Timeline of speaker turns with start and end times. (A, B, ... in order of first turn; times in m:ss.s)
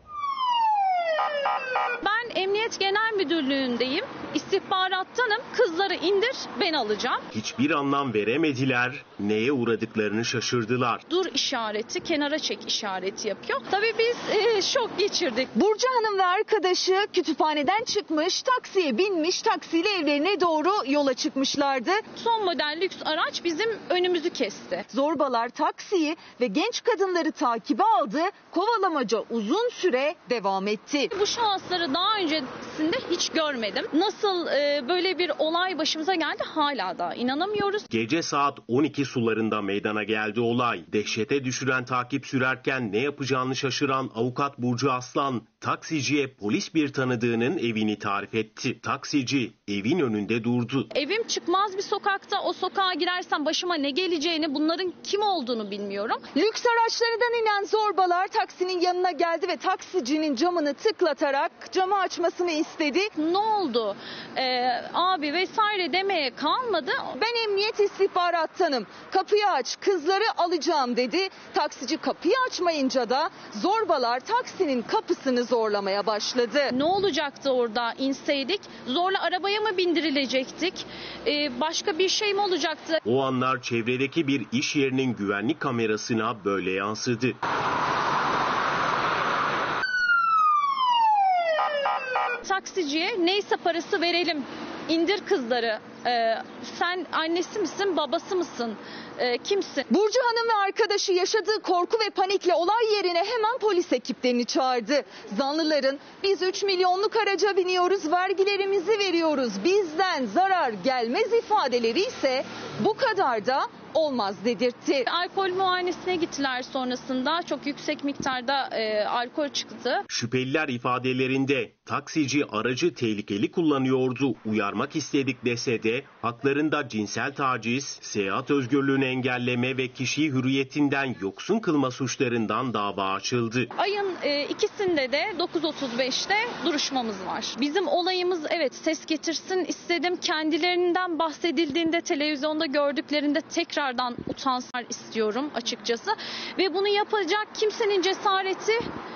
0:02.0-0:07.2 A
0:07.3-0:11.0 B
0:11.1-0:15.5 A
0:15.6-0:22.0 C
0:22.1-0:24.8 A
0:24.9-0:31.1 C
0:31.1-0:37.9 A
0:37.9-0:50.9 B
0:50.9-0:56.3 A
0:56.3-1:03.1 C
1:03.2-1:07.1 A
1:07.2-1:16.7 C
1:16.7-1:23.0 A
1:23.0-1:27.4 B
1:32.4-1:39.8 A
1:39.9-1:55.1 C
1:55.1-2:00.0 A
2:00.1-2:13.7 B
2:13.8-2:28.9 A